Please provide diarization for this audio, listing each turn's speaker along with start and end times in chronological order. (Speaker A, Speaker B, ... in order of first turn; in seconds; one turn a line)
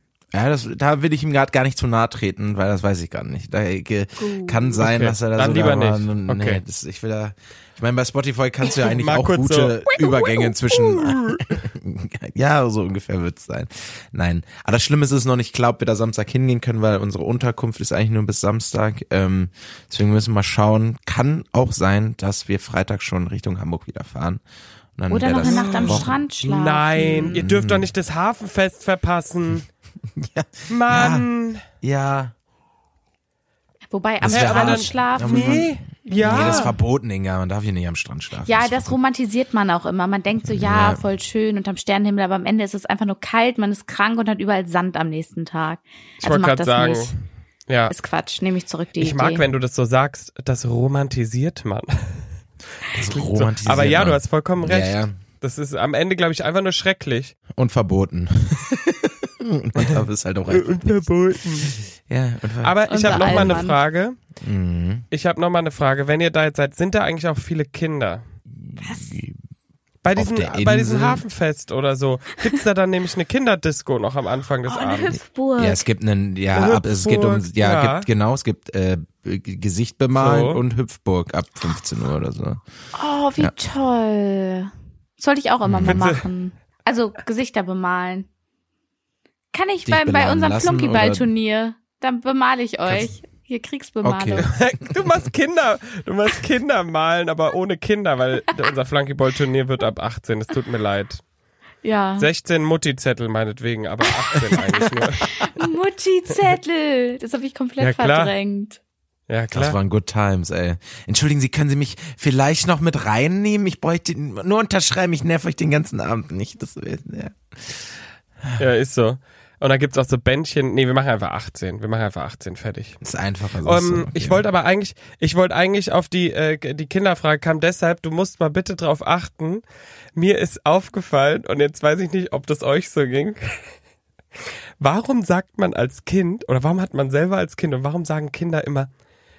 Speaker A: 0.3-24.4
Speaker B: 4.2-4.8
Speaker C: 4.8-6.6
Speaker C: 8.8-11.4
Speaker A: 25.0-27.9
Speaker B: 25.1-27.4
Speaker C: 25.3-29.7
Speaker A: 30.2-31.3
Speaker C: 30.7-31.6
Speaker A: 31.8-32.3
Speaker B: 33.9-36.8
Speaker A: 34.2-39.0
Speaker C: 34.3-36.7
Speaker B: 38.5-47.1
Speaker A: 40.5-41.0
Speaker C: 46.2-47.1
Speaker C: 47.7-47.9
Speaker B: 47.9-49.5
Speaker C: 49.0-52.3
Speaker A: 52.9-55.2
Speaker C: 52.9-57.4
Speaker A: 57.6-61.1
Speaker C: 60.5-61.8
Speaker A: 62.1-63.6
Speaker C: 62.6-64.2
Speaker B: 62.9-63.8
Speaker A: 64.4-65.1
Speaker C: 65.1-68.2
Speaker A: 68.6-69.4
Speaker B: 68.8-69.1
Speaker C: 70.0-75.2
Speaker A: 70.2-71.2
Speaker B: 74.7-75.8
Speaker A: 75.6-82.6
Speaker C: 76.5-78.1
Speaker C: 80.2-80.6
Speaker B: 82.9-88.3
Speaker A: 85.7-86.0
Speaker C: 85.8-86.3
Speaker B: 89.5-94.5
Speaker A: 89.8-91.3
Speaker A: 94.0-94.9
Speaker C: 94.5-101.2
Speaker B: 101.8-102.3
Speaker C: 102.2-105.3
Speaker B: 104.5-108.8
Speaker C: 107.8-108.3
Speaker C: 109.3-109.8
Speaker A: 109.5-117.9
Speaker C: 118.6-123.0
Speaker A: 123.0-124.5
Speaker C: 123.6-129.6
Speaker C: 130.2-133.6
Speaker C: 134.8-138.9